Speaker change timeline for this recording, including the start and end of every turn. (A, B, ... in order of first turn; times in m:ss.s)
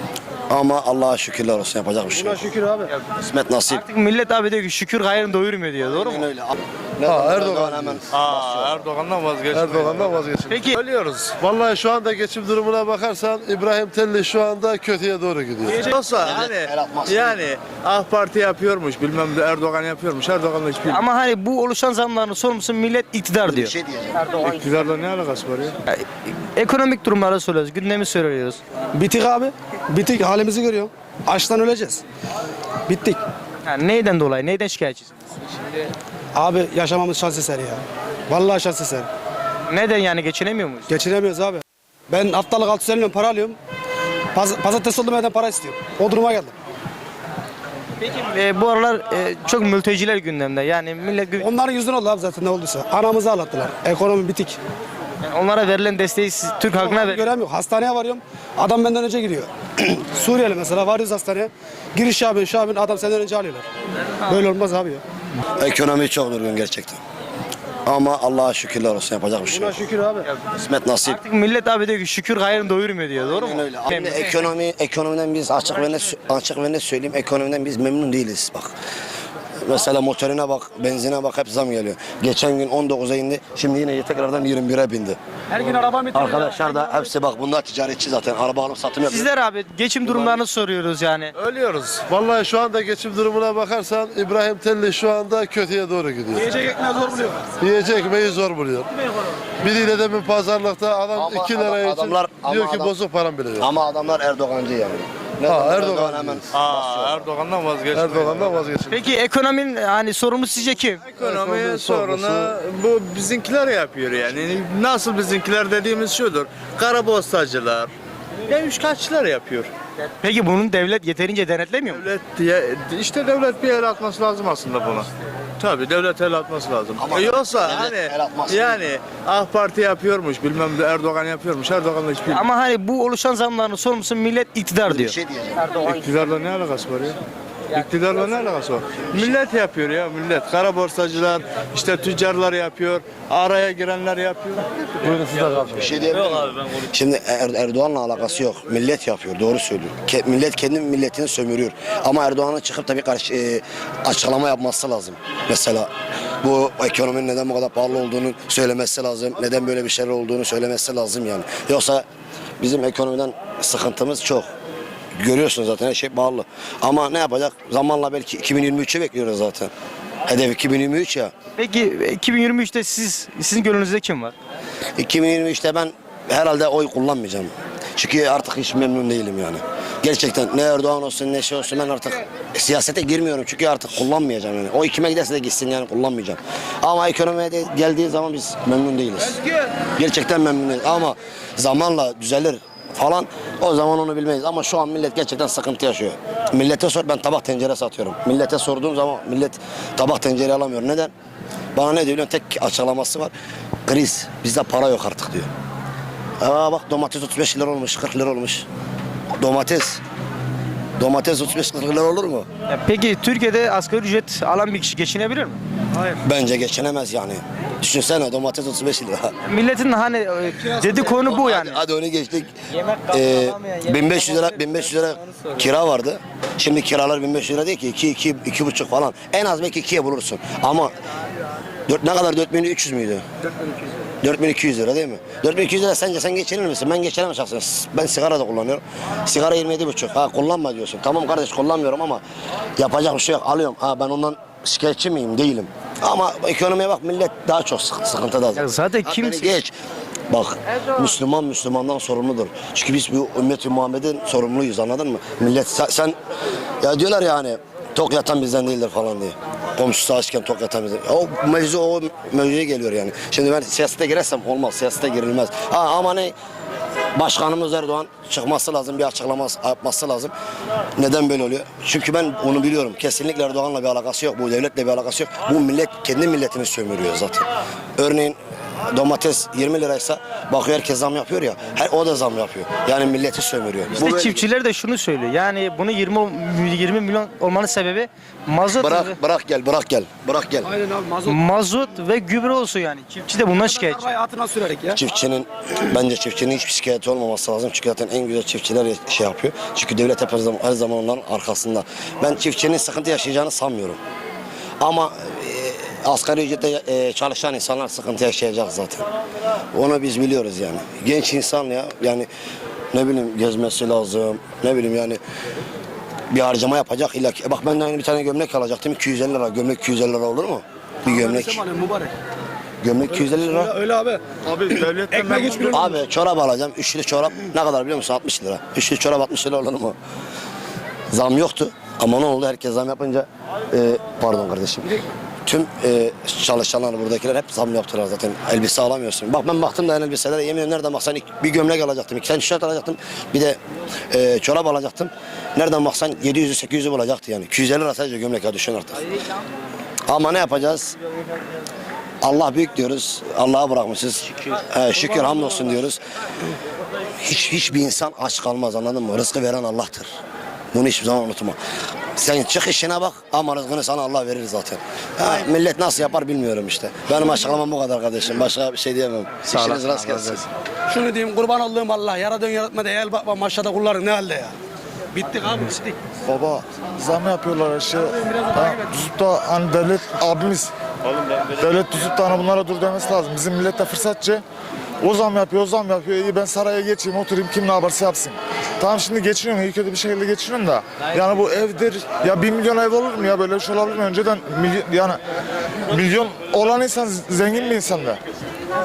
0:00.5-0:03.8 A
0:02.1-0:02.9 B
0:03.7-0:06.2 C
0:06.0-0:08.8 A
0:07.0-0:08.0 D
0:08.1-0:11.4 E
0:09.5-0:10.5 D
0:10.5-0:10.8 C
0:11.4-0:15.8 D
0:15.7-0:21.0 E
0:16.2-0:17.4 A
0:20.9-0:23.7 C
0:23.4-0:24.3 A
0:24.4-0:25.7 E
0:25.9-0:28.6 C
0:28.9-0:32.0 B
0:32.9-0:33.2 B
0:33.6-0:35.1 C
0:36.3-0:39.1 B
0:39.7-0:40.9 C
0:40.9-0:43.6 B
0:44.3-0:46.5 B
0:48.0-0:51.5 C
0:51.4-0:54.6 B
0:55.2-0:57.3 C
0:56.8-1:03.7 B
1:04.2-1:05.0 B
1:05.6-1:07.0 A
1:07.8-1:09.8 A
1:09.5-1:10.3 B
1:10.4-1:11.2 A
1:11.0-1:14.4 C
1:13.3-1:18.7 A
1:19.6-1:25.2 A
1:25.5-1:27.0 B
1:26.1-1:29.3 A
1:29.1-1:31.3 C
1:30.1-1:30.4 A
1:31.3-1:32.1 E
1:32.1-1:36.6 D
1:36.4-1:37.5 B
1:37.6-1:38.9 D
1:39.6-1:43.7 D
1:41.1-1:42.9 A
1:43.6-1:47.3 A
1:45.4-1:46.4 D
1:46.5-1:48.6 E
1:47.9-1:49.0 D
1:48.9-1:51.0 C
1:51.0-1:57.9 E
1:51.2-1:52.5 D
1:58.5-1:59.7 E
2:00.2-2:02.0 C
2:01.9-2:12.4 E
2:07.0-2:08.8 A
2:12.3-2:15.2 C
2:14.9-2:15.8 A
2:15.8-2:17.2 E
2:17.7-2:25.7 E
2:25.6-2:35.9 A
2:36.4-2:42.0 A
2:42.6-2:44.4 A
2:45.2-2:49.7 A
2:50.3-2:51.3 A
2:51.6-2:54.3 C
2:55.0-3:09.4 A
3:10.0-3:21.1 A
3:21.8-3:23.3 A
3:23.8-3:25.5 A
3:26.4-3:28.7 A
3:29.4-3:30.0 A
3:31.0-3:32.5 A
3:32.7-3:35.6 C
3:36.1-3:39.3 A
3:39.5-3:41.8 C
3:41.0-3:50.9 A
3:51.9-3:53.2 A
3:54.2-4:02.2 A
4:02.8-4:09.7 A
4:08.5-4:09.5 C
4:10.3-4:16.2 A
4:16.8-4:26.3 A
4:27.1-4:30.3 A
4:31.0-4:37.4 A
4:38.0-4:44.5 A
4:43.9-4:49.2 C
4:48.8-4:50.7 A
4:50.6-4:51.4 B
4:51.2-4:54.1 C
4:53.6-4:55.0 B
4:54.9-5:04.0 A
5:04.8-5:09.1 A
5:09.7-5:12.3 A
5:12.9-5:15.2 A
5:16.3-5:21.7 A
5:21.0-5:22.1 B
5:22.8-5:23.8 A
5:23.2-5:26.0 B
5:24.4-5:25.9 E
5:25.7-5:30.0 A
5:31.1-5:43.6 A
5:44.1-5:49.0 A
5:50.1-5:51.0 A
5:52.2-5:56.0 A
5:57.2-6:00.1 A
6:00.7-6:01.6 A
6:02.2-6:10.5 A
6:09.5-6:10.2 E
6:10.9-6:14.6 B
6:15.1-6:16.0 B
6:16.2-6:20.7 F
6:18.2-6:18.8 B
6:21.6-6:24.4 F
6:25.0-6:35.2 F
6:35.9-6:38.2 F